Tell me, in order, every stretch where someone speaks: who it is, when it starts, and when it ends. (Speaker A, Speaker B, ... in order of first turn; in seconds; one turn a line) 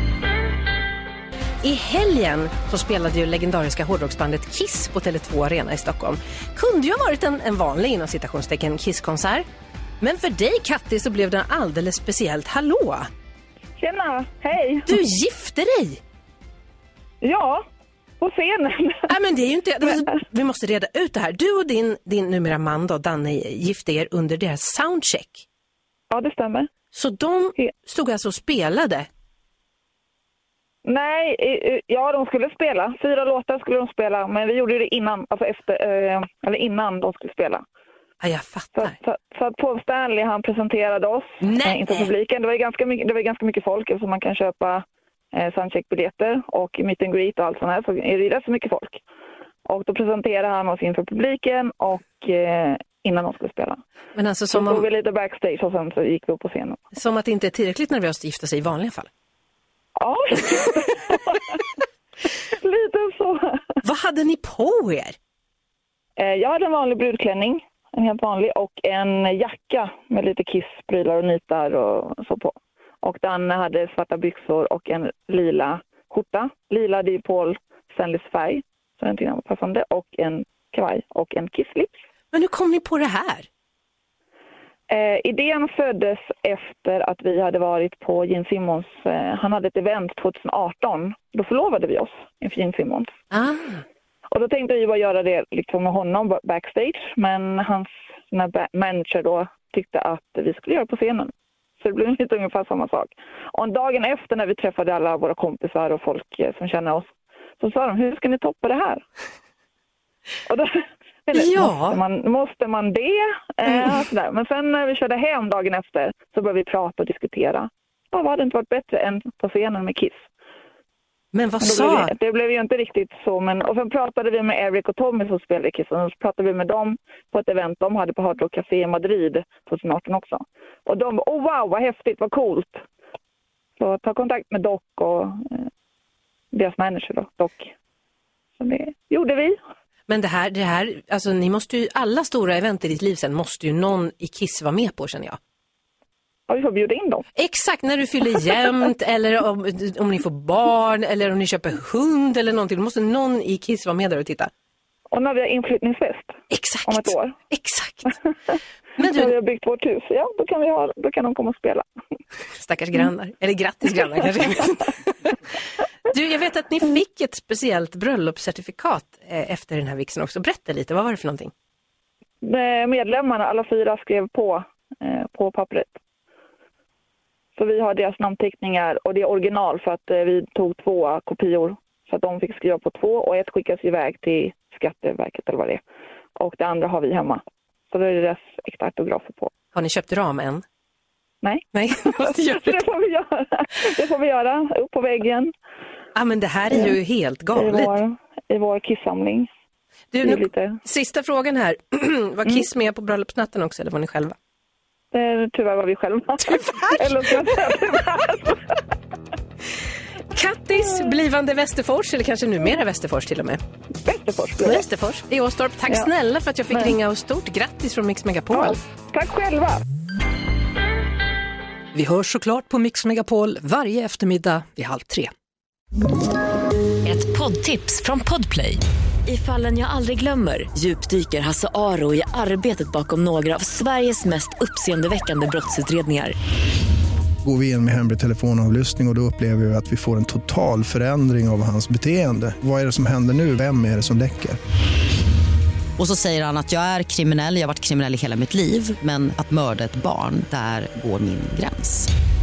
Speaker A: 1.6-9.4
Speaker A: 10.0-13.1
Speaker B: 13.8-15.0
Speaker A: 14.9-16.0
Speaker B: 17.2-17.6
Speaker B: 18.2-19.1
Speaker A: 19.1-25.4
Speaker B: 26.1-26.7
Speaker A: 26.9-29.1
Speaker B: 30.8-37.6
Speaker A: 38.2-38.9
Speaker B: 38.8-49.0
Speaker A: 41.4-42.1
Speaker B: 49.6-53.8
Speaker A: 54.1-54.9
Speaker B: 54.5-56.8
Speaker A: 56.9-59.1
Speaker B: 60.0-61.6
Speaker B: 62.5-63.8
Speaker A: 63.8-65.1
Speaker B: 66.2-82.0
Speaker A: 82.3-83.5
Speaker B: 84.9-93.1
Speaker A: 93.3-93.8
Speaker B: 94.3-107.1
Speaker B: 107.6-109.0
Speaker B: 110.5-120.2
Speaker A: 111.3-112.0
Speaker A: 121.3-122.1
Speaker B: 121.6-132.8
Speaker B: 133.8-135.7
Speaker B: 136.5-137.7
Speaker B: 138.6-139.6
Speaker A: 140.1-145.4
Speaker B: 146.5-147.2
Speaker A: 147.3-154.5
Speaker B: 155.1-157.3
Speaker A: 156.5-158.2
Speaker A: 159.0-159.3
Speaker B: 159.0-161.9
Speaker A: 162.6-165.3
Speaker A: 166.1-171.5
Speaker B: 172.4-175.9
Speaker B: 177.6-185.8
Speaker B: 186.4-189.5
Speaker A: 189.7-190.6
Speaker B: 191.4-195.5
Speaker A: 191.7-192.8
Speaker A: 196.1-197.9
Speaker B: 197.5-199.5
Speaker A: 200.1-204.3
Speaker B: 200.2-200.8
Speaker B: 205.1-208.6
Speaker A: 206.4-207.5
Speaker A: 210.3-213.6
Speaker B: 214.0-214.8
Speaker A: 214.6-218.8
Speaker B: 218.5-219.8
Speaker C: 221.9-225.3
Speaker D: 227.0-236.3
Speaker E: 237.4-244.6
Speaker F: 246.0-252.1